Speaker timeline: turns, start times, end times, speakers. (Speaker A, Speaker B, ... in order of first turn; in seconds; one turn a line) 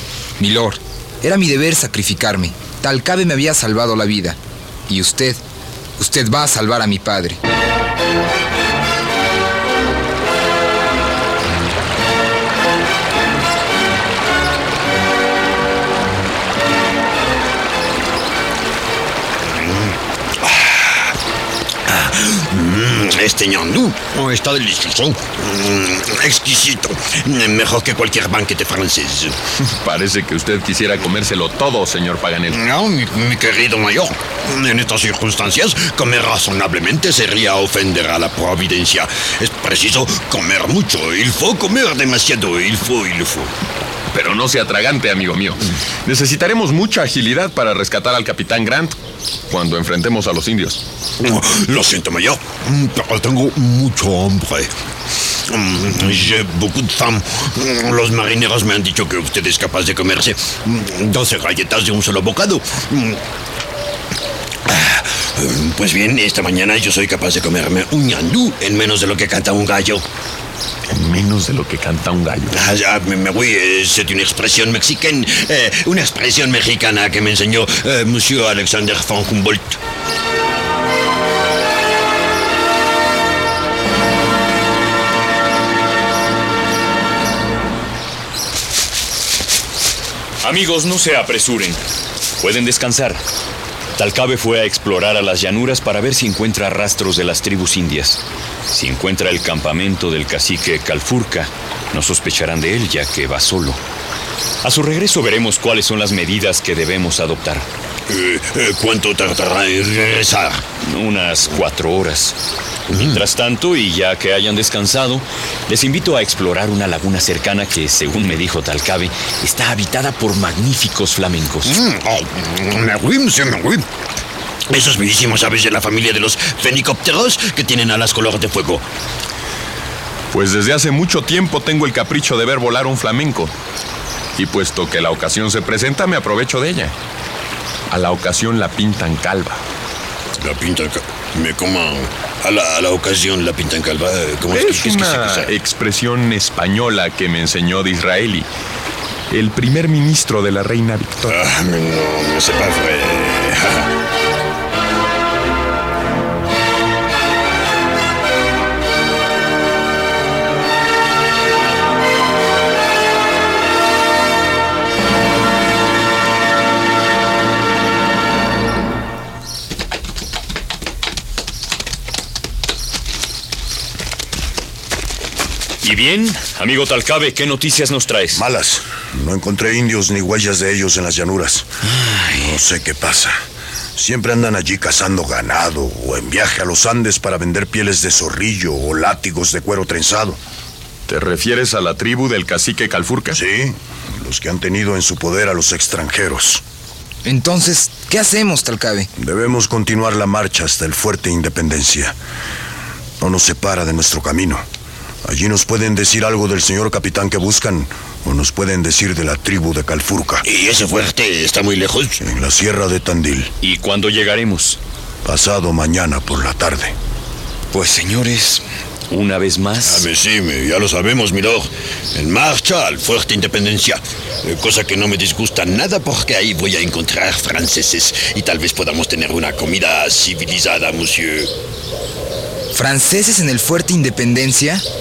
Speaker A: 0.4-4.3
Speaker A: 4.9-5.4
Speaker A: 6.0-7.3
Speaker B: 19.4-21.1
Speaker B: 21.9-29.4
Speaker C: 29.7-32.6
Speaker B: 32.5-43.5
Speaker C: 44.1-49.0
Speaker C: 49.5-50.8
Speaker B: 51.2-54.7
Speaker B: 55.5-63.2
Speaker B: 64.7-70.0
Speaker C: 70.9-72.7
Speaker B: 72.5-79.8
Speaker D: 90.4-91.8
Speaker D: 92.4-93.2
Speaker D: 94.0-98.2
Speaker D: 98.7-103.8
Speaker D: 104.6-107.7
Speaker B: 108.1-110.7
Speaker D: 110.8-112.4
Speaker B: 112.9-113.2
Speaker D: 113.0-121.8
Speaker B: 121.7-123.8
Speaker B: 124.7-128.8
Speaker C: 130.3-133.5
Speaker C: 134.4-136.9
Speaker C: 137.9-139.6
Speaker B: 140.4-145.6
Speaker C: 144.5-148.5
Speaker C: 149.3-151.4
Speaker B: 151.3-153.9
Speaker D: 175.8-178.4
Speaker E: 178.3-181.7
Speaker D: 181.9-182.6
Speaker E: 182.4-183.4
Speaker E: 184.0-190.4
Speaker C: 191.1-193.4
Speaker E: 193.3-196.6
Speaker A: 197.3-199.1
Speaker E: 199.2-202.2
Speaker E: 203.2-204.7
Speaker E: 205.2-210.4
Speaker B: 210.4-212.2
Speaker E: 212.2-213.5
Speaker D: 213.6-214.8
Speaker E: 215.2-216.9
Speaker D: 217.7-220.1
Speaker B: 219.8-231.5
Speaker A: 232.7-234.8